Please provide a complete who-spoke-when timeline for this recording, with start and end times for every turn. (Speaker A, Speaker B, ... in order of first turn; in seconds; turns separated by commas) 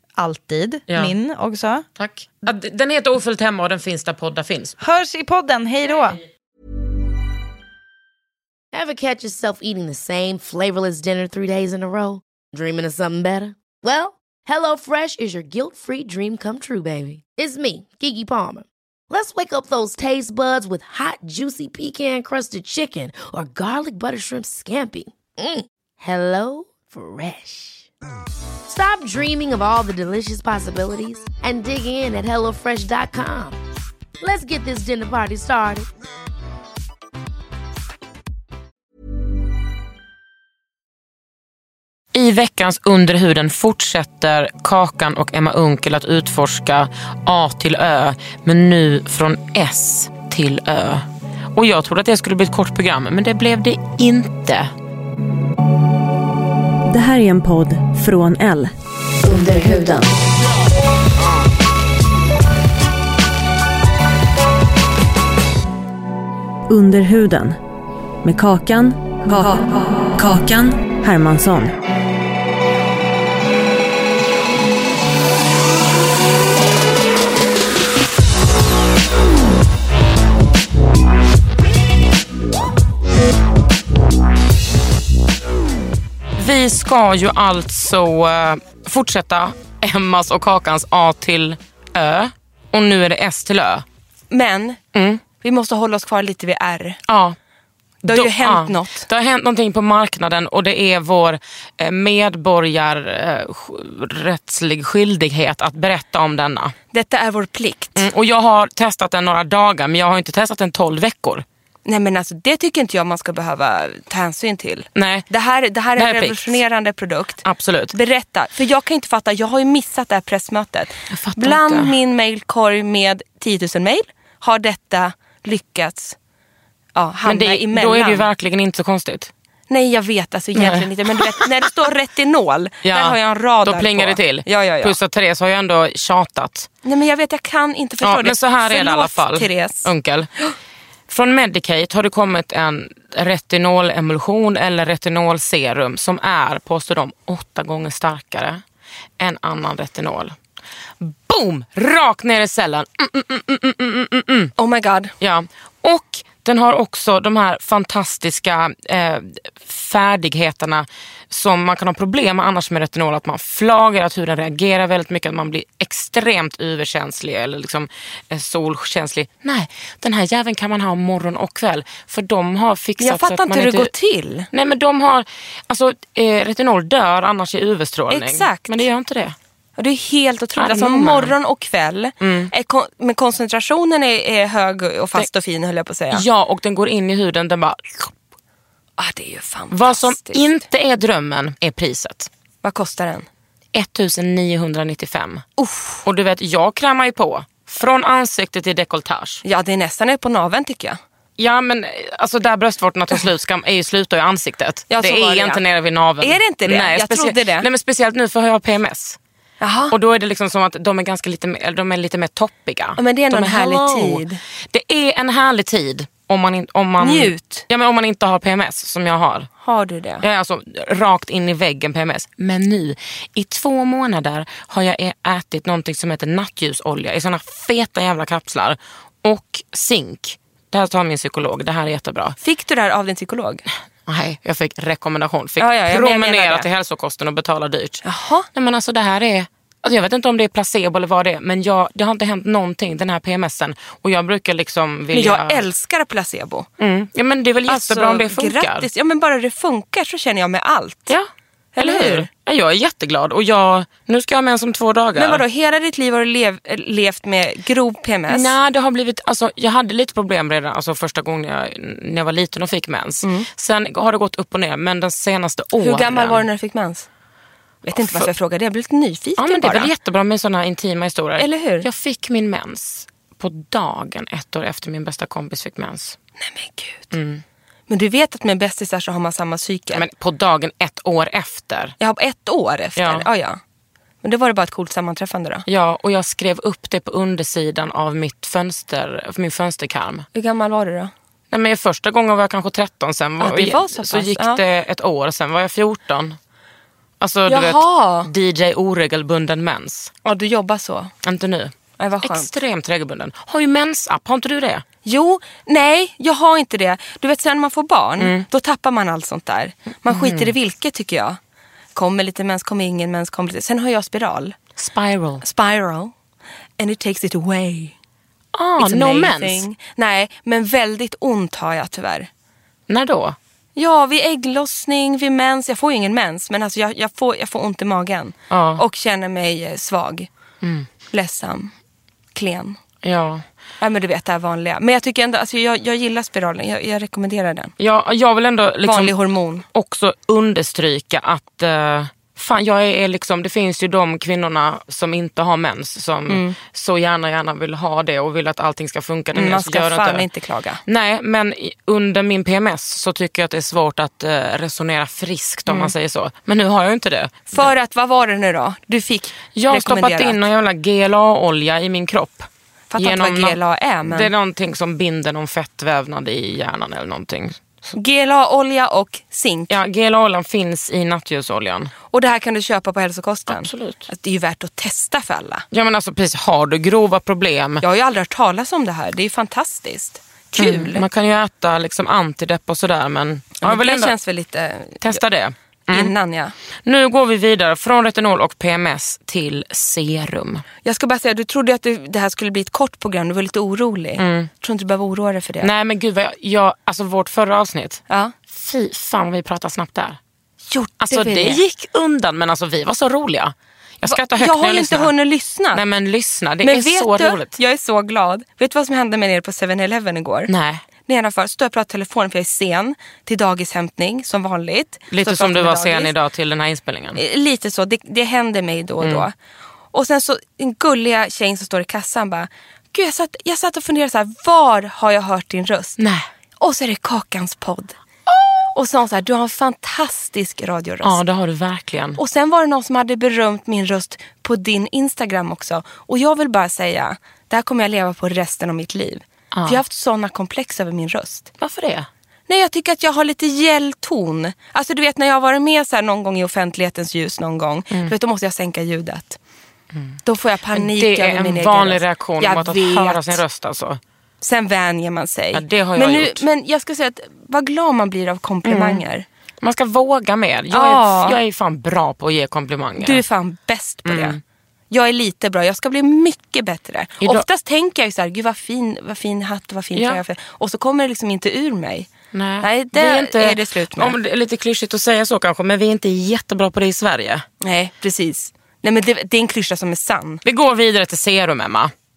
Speaker A: 0.2-1.8, Speaker B: 0.9-1.1, Speaker B: 2.0-4.8, Speaker A: 4.8-6.2, Speaker C: 8.7-27.9, Speaker C: 28.6-33.6, Speaker C: 34.2-35.9, Speaker B: 42.1-54.7, Speaker D: 56.9-60.1, Speaker D: 66.7-67.6, Speaker D: 68.2-71.8, Speaker B: 86.4-93.8, Speaker E: 94.3-94.8, Speaker B: 94.9-95.2, Speaker E: 95.4-97.0, Speaker B: 97.1-97.3, Speaker E: 98.0-99.0, Speaker B: 98.0-106.7, Speaker E: 106.9-108.0, Speaker B: 108.0-111.4, Speaker E: 111.8-126.2, Speaker B: 114.9-115.3, Speaker B: 116.0-116.6, Speaker B: 117.4-117.9, Speaker B: 121.1-121.9, Speaker E: 126.9-128.2, Speaker B: 127.2-129.3, Speaker E: 129.7-134.9, Speaker B: 130.6-131.4, Speaker B: 132.8-136.7, Speaker E: 136.8-139.9, Speaker B: 138.0-140.3, Speaker B: 141.1-148.6, Speaker B: 149.2-150.3, Speaker B: 151.0-154.5, Speaker E: 154.6-155.1, Speaker B: 155.2-173.9, Speaker E: 173.0-174.5, Speaker B: 174.5-179.3, Speaker E: 178.1-178.8, Speaker E: 179.8-186.2, Speaker B: 180.6-181.3, Speaker B: 182.2-182.5, Speaker B: 186.1-188.1, Speaker E: 189.0-190.5, Speaker B: 189.7-192.3, Speaker E: 192.6-193.3, Speaker B: 193.7-195.4, Speaker E: 195.6-196.0, Speaker B: 196.0-199.4, Speaker E: 199.4-201.0, Speaker B: 201.4-209.2, Speaker E: 204.9-205.6, Speaker E: 206.2-207.7, Speaker E: 209.6-209.9, Speaker B: 209.9-219.5, Speaker E: 213.0-214.4, Speaker E: 217.0-217.7, Speaker E: 219.6-220.2, Speaker B: 220.2-232.4, Speaker E: 232.4-233.6, Speaker B: 234.1-238.0, Speaker E: 235.6-236.7, Speaker E: 238.0-238.5, Speaker B: 238.5-245.6, Speaker E: 245.1-246.7, Speaker B: 246.8-248.9, Speaker E: 247.7-251.1, Speaker B: 251.1-255.4, Speaker E: 251.8-252.3, Speaker E: 255.2-258.5, Speaker B: 258.3-266.4, Speaker E: 263.2-263.5, Speaker E: 265.8-267.1, Speaker E: 267.8-269.9, Speaker B: 268.0-268.3, Speaker B: 269.4-276.2, Speaker E: 271.4-271.9, Speaker E: 276.4-277.1, Speaker B: 277.1-277.4, Speaker E: 277.9-280.0, Speaker B: 279.9-281.9, Speaker E: 282.0-283.6, Speaker B: 282.9-283.3, Speaker E: 284.2-285.6, Speaker B: 285.7-290.2, Speaker E: 290.3-291.1, Speaker B: 291.5-296.4, Speaker E: 293.4-294.6, Speaker B: 297.2-300.1, Speaker E: 297.5-298.3, Speaker E: 300.2-301.1, Speaker B: 301.2-304.8, Speaker E: 302.0-302.5, Speaker E: 305.0-311.4, Speaker B: 308.2-308.4, Speaker B: 310.1-310.5, Speaker E: 311.9-314.6, Speaker B: 314.8-315.4, Speaker E: 315.4-316.1, Speaker E: 316.8-317.9, Speaker B: 318.5-319.6, Speaker E: 318.8-322.3, Speaker B: 322.9-323.4, Speaker E: 323.8-330.3, Speaker B: 328.5-328.8, Speaker B: 330.6-330.9, Speaker E: 331.1-331.7, Speaker E: 332.3-332.8, Speaker B: 333.0-333.4, Speaker E: 333.8-337.7, Speaker B: 337.8-339.1, Speaker E: 338.8-339.6, Speaker B: 339.7-350.2, Speaker E: 346.3-346.6, Speaker E: 349.3-350.8, Speaker B: 350.9-357.7, Speaker E: 355.7-355.9, Speaker E: 357.5-360.4, Speaker B: 359.5-362.5, Speaker E: 362.9-364.3, Speaker B: 363.0-367.9, Speaker E: 367.9-369.7, Speaker B: 369.7-371.9, Speaker E: 372.1-375.6, Speaker B: 373.5-374.1, Speaker B: 375.7-377.8, Speaker E: 377.8-381.0, Speaker B: 380.6-384.1, Speaker E: 383.6-385.2, Speaker B: 385.0-386.1, Speaker E: 385.9-386.5, Speaker B: 386.9-390.6, Speaker E: 390.8-395.7, Speaker B: 394.2-394.5, Speaker B: 395.6-400.2, Speaker E: 400.7-401.6, Speaker B: 401.0-405.1, Speaker E: 404.0-405.8, Speaker B: 405.7-407.6, Speaker E: 406.6-410.5, Speaker B: 410.5-410.8, Speaker E: 411.0-416.1, Speaker B: 415.1-417.2, Speaker E: 417.1-419.3, Speaker B: 419.0-419.3, Speaker E: 419.9-426.0, Speaker B: 426.0-426.3, Speaker E: 426.6-428.0, Speaker E: 428.7-431.2, Speaker B: 431.0-432.2, Speaker E: 432.2-441.5, Speaker B: 439.5-439.8, Speaker B: 441.6-442.1, Speaker E: 442.5-449.4, Speaker E: 450.2-453.4, Speaker B: 450.7-454.0, Speaker E: 454.4-459.2, Speaker B: 455.5-456.4, Speaker B: 458.6-459.0, Speaker B: 459.6-463.2, Speaker E: 460.7-461.4, Speaker E: 463.0-464.4, Speaker B: 464.0-464.4, Speaker E: 464.9-472.1, Speaker B: 469.9-470.2, Speaker B: 472.3-477.4, Speaker E: 472.6-474.1, Speaker E: 477.6-480.4, Speaker B: 480.4-481.9